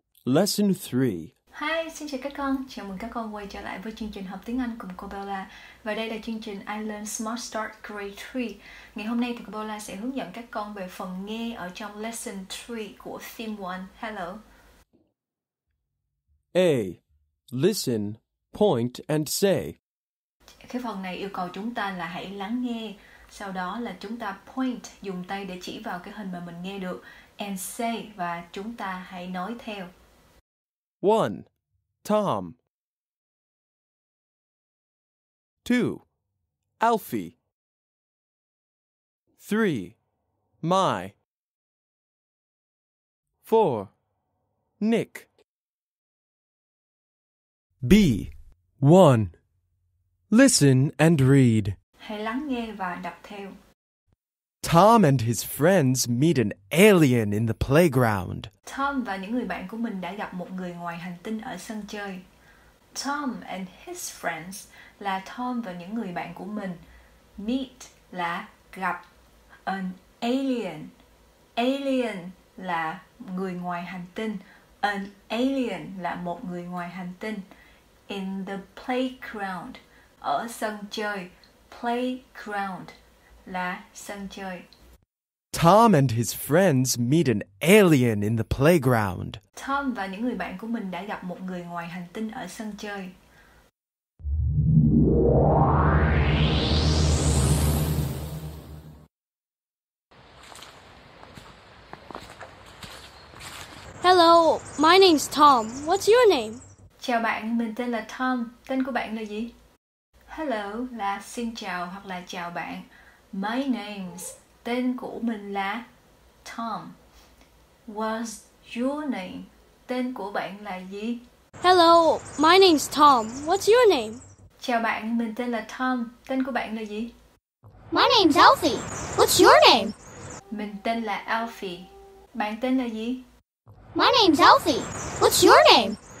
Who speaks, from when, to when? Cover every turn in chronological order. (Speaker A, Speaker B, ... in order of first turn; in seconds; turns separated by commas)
Speaker A: 0.2-1.3, Speaker B: 1.5-14.4, Speaker A: 16.5-17.0, Speaker A: 17.5-19.8, Speaker B: 20.6-29.9, Speaker A: 31.0-31.5, Speaker A: 32.0-32.6, Speaker A: 35.6-36.0, Speaker A: 36.8-37.4, Speaker A: 39.4-40.0, Speaker A: 40.6-41.1, Speaker A: 43.4-43.9, Speaker A: 44.8-45.3, Speaker A: 47.8-49.3, Speaker A: 50.3-51.8, Speaker B: 52.0-53.5, Speaker A: 54.6-58.5, Speaker B: 58.6-62.2, Speaker B: 62.9-66.8, Speaker B: 67.4-69.0, Speaker B: 69.7-70.9, Speaker B: 71.5-77.4, Speaker B: 78.1-82.9, Speaker B: 83.5-84.7, Speaker A: 85.5-89.4, Speaker B: 89.5-93.1, Speaker C: 104.0-106.6, Speaker B: 107.0-109.5, Speaker B: 110.3-115.8, Speaker B: 116.4-117.0, Speaker B: 117.9-121.2, Speaker C: 121.6-124.2, Speaker B: 124.6-127.1, Speaker D: 127.9-129.9, Speaker B: 130.5-133.2, Speaker D: 133.9-136.0